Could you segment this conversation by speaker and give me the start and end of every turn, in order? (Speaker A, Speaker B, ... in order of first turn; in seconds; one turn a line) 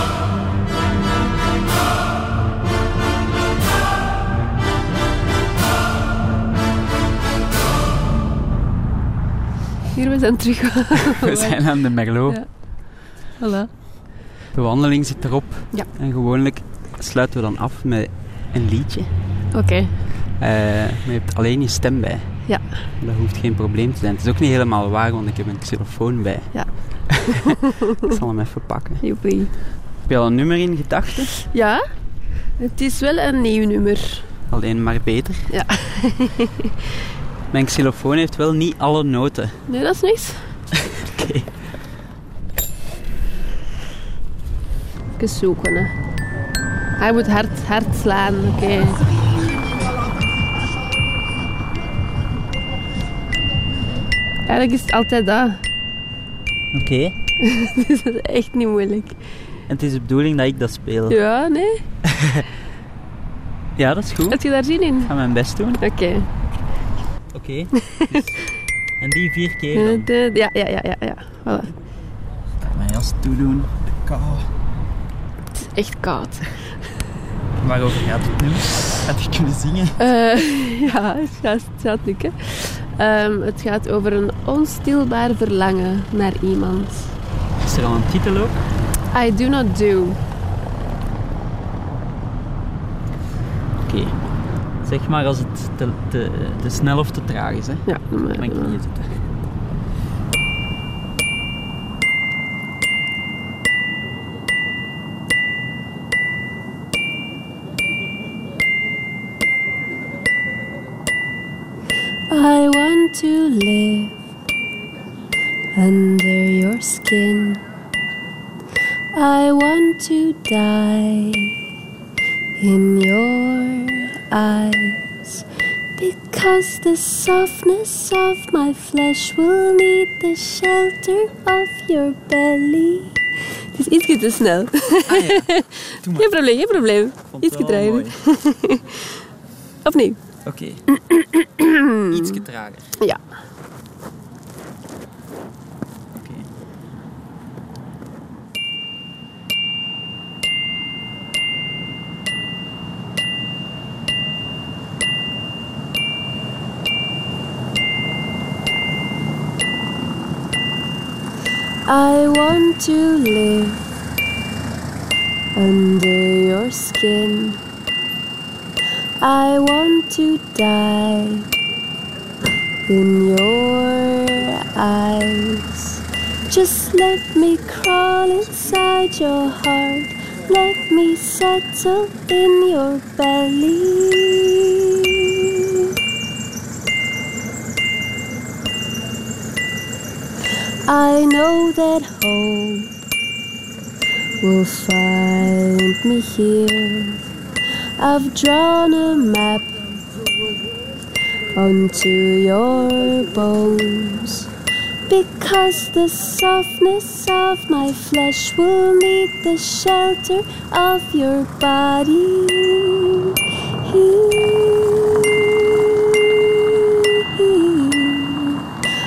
Speaker A: 9.9-13.7
Speaker B: 11.2-12.5
Speaker B: 14.5-19.1
Speaker A: 19.5-20.0
Speaker B: 20.4-27.3
Speaker A: 26.5-27.5
Speaker B: 28.1-29.2
Speaker A: 29.0-29.5
Speaker B: 30.0-31.4
Speaker A: 31.5-31.8
Speaker A: 32.5-34.3
Speaker B: 34.5-35.5
Speaker A: 35.5-36.5
Speaker B: 37.5-39.6
Speaker A: 39.7-40.6
Speaker B: 40.9-41.6
Speaker A: 45.2-46.0
Speaker A: 47.0-49.0
Speaker A: 54.5-55.6
Speaker B: 56.7-57.1
Speaker A: 57.4-59.2
Speaker B: 59.7-61.2
Speaker A: 61.1-61.8
Speaker B: 63.8-65.8
Speaker A: 64.3-65.1
Speaker A: 65.8-66.3
Speaker B: 67.3-68.4
Speaker B: 69.0-70.1
Speaker A: 69.8-71.8
Speaker B: 72.6-74.5
Speaker A: 75.6-76.8
Speaker B: 77.6-80.0
Speaker A: 80.0-87.1
Speaker B: 87.6-88.8
Speaker A: 89.1-90.2
Speaker B: 93.8-99.2
Speaker A: 97.9-98.8
Speaker A: 112.3-114.2
Speaker A: 115.7-117.6
Speaker A: 119.1-121.5
Speaker A: 122.6-125.5
Speaker A: 126.0-133.2
Speaker A: 133.8-139.2
Speaker B: 135.1-135.5
Speaker B: 136.0-136.3
Speaker B: 137.3-138.1
Speaker A: 139.8-140.2
Speaker B: 140.4-140.8
Speaker A: 141.0-142.4
Speaker B: 142.1-142.9
Speaker B: 146.2-146.5
Speaker A: 161.9-163.9
Speaker A: 165.6-167.6
Speaker A: 169.2-171.5
Speaker A: 172.9-184.8
Speaker A: 190.8-192.9
Speaker A: 194.4-197.2
Speaker A: 198.0-199.8
Speaker A: 201.6-204.5
Speaker A: 205.1-218.7